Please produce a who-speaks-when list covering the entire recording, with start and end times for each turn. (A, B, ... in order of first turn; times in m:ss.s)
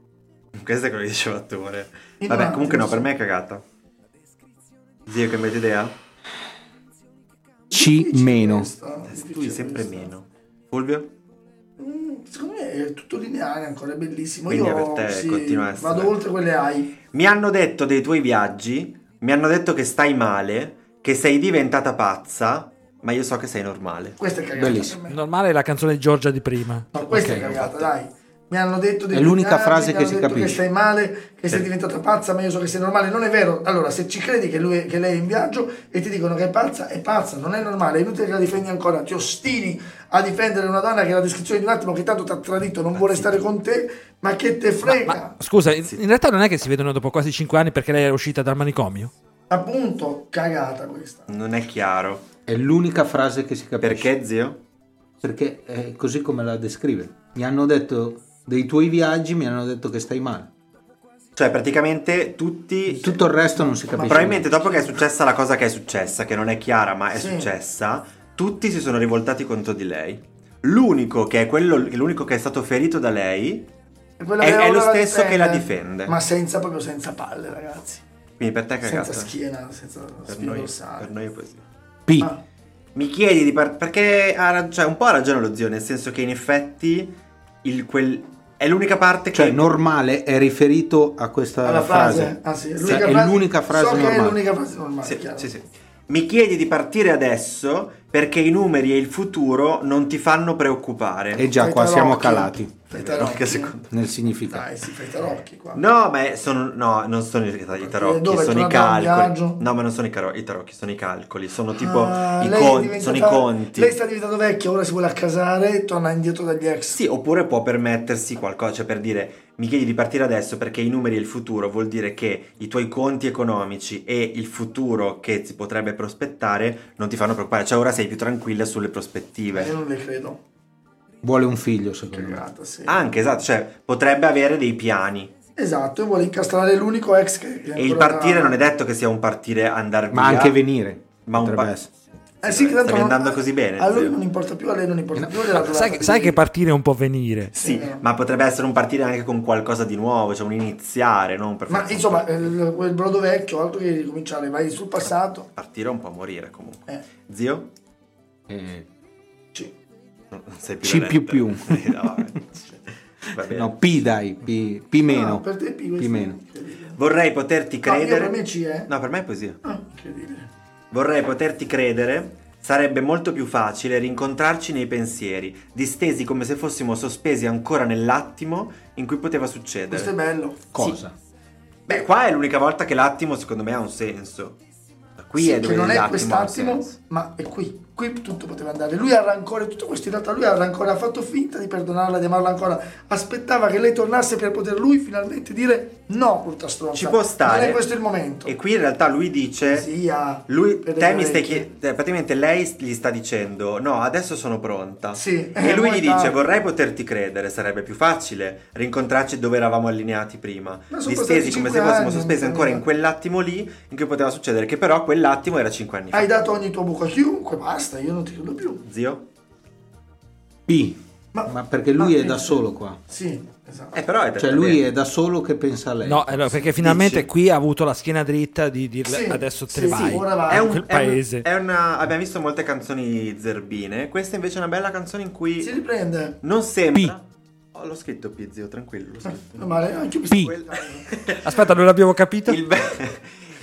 0:00.6-0:03.6 A
0:02.2-0:03.1 B
0:05.1-0:06.0 A
0:07.7-0:08.7 C
0:07.7-0:10.1 B
0:09.1-0:11.1 A
0:11.8-0:17.0 B
0:14.5-0:16.2 A
0:17.1-0:24.2 A
0:24.2-0:25.2 B
0:24.6-0:25.0 C
0:25.1-0:27.5 D
0:26.9-0:45.3 B
0:27.2-0:27.9 A
0:29.1-0:30.6 C
0:42.9-0:43.4 C
0:44.8-0:49.1 D
0:49.5-0:51.3 B
0:51.3-0:52.2 A
0:52.5-0:54.1 C
0:53.8-0:54.6 A
0:55.2-1:00.5 C
1:01.4-1:03.2 A
1:02.9-1:04.5 C
1:03.8-1:05.0 B
1:04.1-1:13.7 A
1:07.2-1:07.5 B
1:14.2-1:18.0 B
1:14.4-1:16.2 A
1:18.4-1:19.3 A
1:18.8-1:21.1 B
1:20.3-1:21.6 A
1:22.1-1:22.3 C
1:23.0-1:29.7 A
1:29.3-1:34.4 C
1:31.6-1:35.5 B
1:35.0-1:41.4 A
1:41.3-1:42.8 C
1:41.4-1:43.8 B
1:42.9-1:43.9 A
1:43.9-1:44.7 C
1:44.4-1:45.8 B
1:45.8-1:54.0 A
1:47.8-1:49.6 B
1:51.8-1:57.0 B
1:56.9-2:09.8 A
2:09.5-2:10.4 B
2:11.2-2:12.4 C
2:12.1-2:13.2 B
2:12.9-2:15.3 A
2:15.6-2:18.6 B
2:17.8-2:20.6 A
2:20.1-2:21.9 C
2:21.3-2:21.8 A
2:22.4-2:26.4 B
2:22.4-2:24.2 A
2:25.2-2:25.5 C
2:25.5-2:27.6 D
2:27.6-2:32.5 A
2:27.6-2:28.0 B
2:31.7-2:35.5 B
2:35.6-2:37.7 A
2:38.5-2:38.9 C
2:40.3-2:42.4 A
2:40.8-2:42.4 C
2:43.3-2:43.8 A
2:43.4-2:45.5 C
2:45.1-2:47.0 B
2:46.0-2:46.4 C
2:47.0-2:49.6 A
2:47.8-2:48.9 B
2:49.6-2:50.5 B
2:50.9-3:00.1 A
2:59.9-3:00.6 B
3:00.7-3:01.2 C
3:01.9-3:04.6 A
3:05.2-3:07.0 A
3:05.4-3:18.6 B
3:17.0-3:17.8 A
3:18.5-3:19.9 A
3:19.7-3:21.7 B
3:20.5-3:36.4 A
3:25.2-3:26.5 B
3:30.9-3:32.8 B
3:36.1-3:38.8 B
3:38.8-3:39.3 A
3:40.7-3:43.0 C
3:41.3-3:44.0 B
3:43.9-3:44.8 A
3:44.4-3:46.6 C
3:46.0-3:51.4 D
3:46.8-3:47.3 A
3:49.1-3:50.7 B
3:49.9-3:55.7 A
3:55.6-3:56.4 B
3:56.4-3:59.6 A
3:59.2-4:01.1 B
4:00.3-4:00.6 C
4:01.1-4:01.6 A
4:01.4-4:02.6 D
4:02.5-4:03.4 A